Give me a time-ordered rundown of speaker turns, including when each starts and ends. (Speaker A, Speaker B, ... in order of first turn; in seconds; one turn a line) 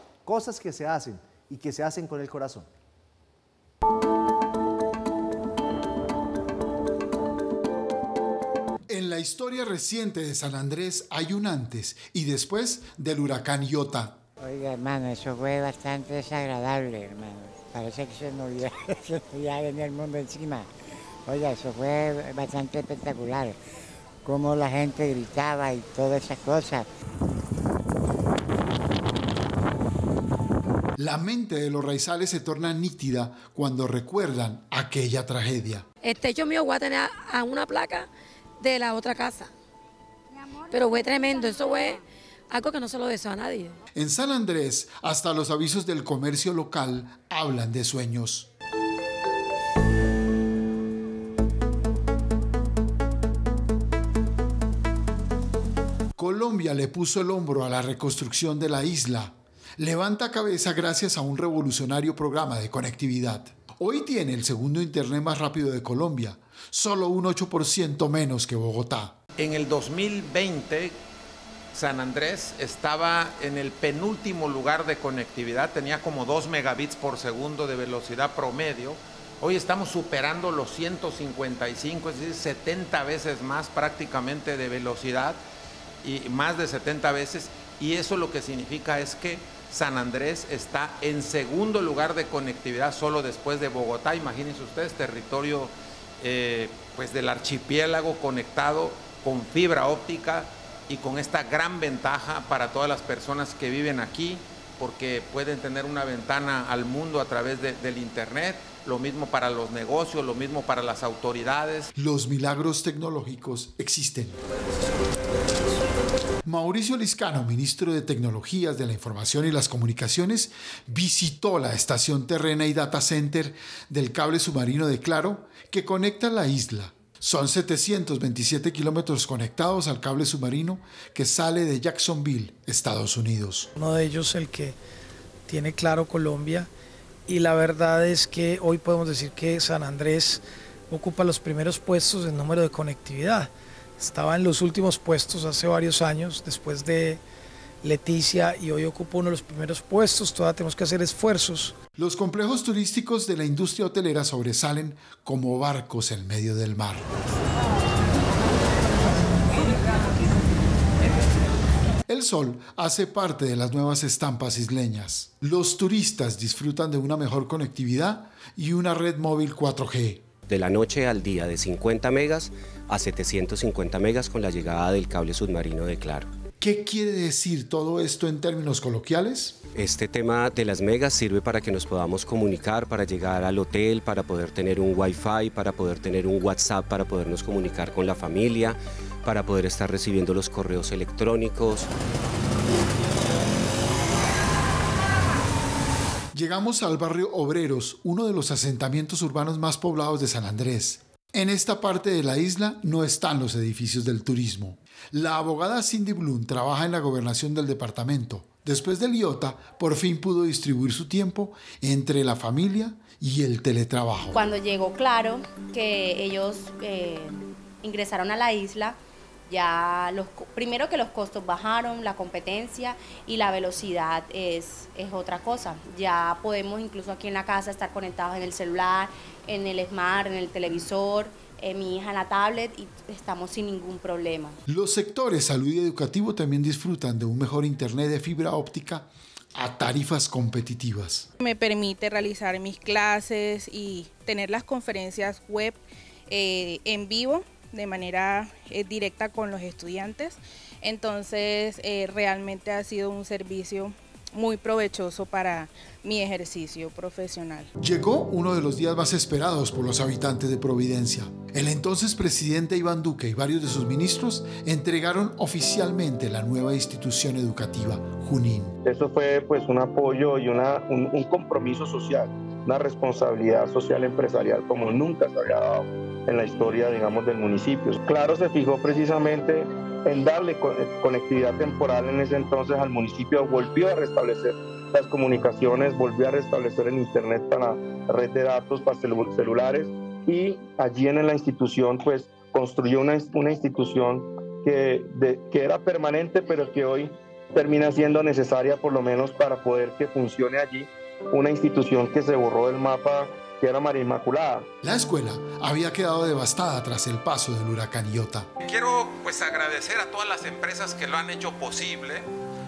Speaker A: 0.2-2.7
Speaker B: 8.9-14.2
Speaker C: 14.5-18.5
Speaker C: 19.5-20.6
Speaker C: 21.5-23.5
Speaker C: 24.3-26.8
Speaker B: 31.0-35.8
Speaker D: 36.1-38.0
Speaker D: 38.8-39.4
Speaker D: 41.0-41.9
Speaker D: 42.6-43.7
Speaker B: 43.9-48.5
Speaker B: 56.2-69.2
Speaker E: 69.4-71.0
Speaker E: 71.7-85.4
Speaker E: 86.0-111.9
Speaker B: 112.0-114.4
Speaker B: 116.5-133.7
Speaker F: 133.8-134.8
Speaker F: 135.5-136.7
Speaker F: 137.3-147.2
Speaker F: 147.8-151.8
Speaker B: 152.0-157.1
Speaker B: 162.1-170.3
Speaker G: 170.5-176.3
Speaker B: 176.6-179.6
Speaker G: 179.8-191.9
Speaker B: 196.3-214.4
Speaker H: 214.3-234.6
Speaker B: 234.7-241.3
Speaker I: 241.4-257.7
Speaker B: 257.8-268.8
Speaker J: 268.8-304.7
Speaker B: 304.8-308.5
Speaker E: 308.6-312.3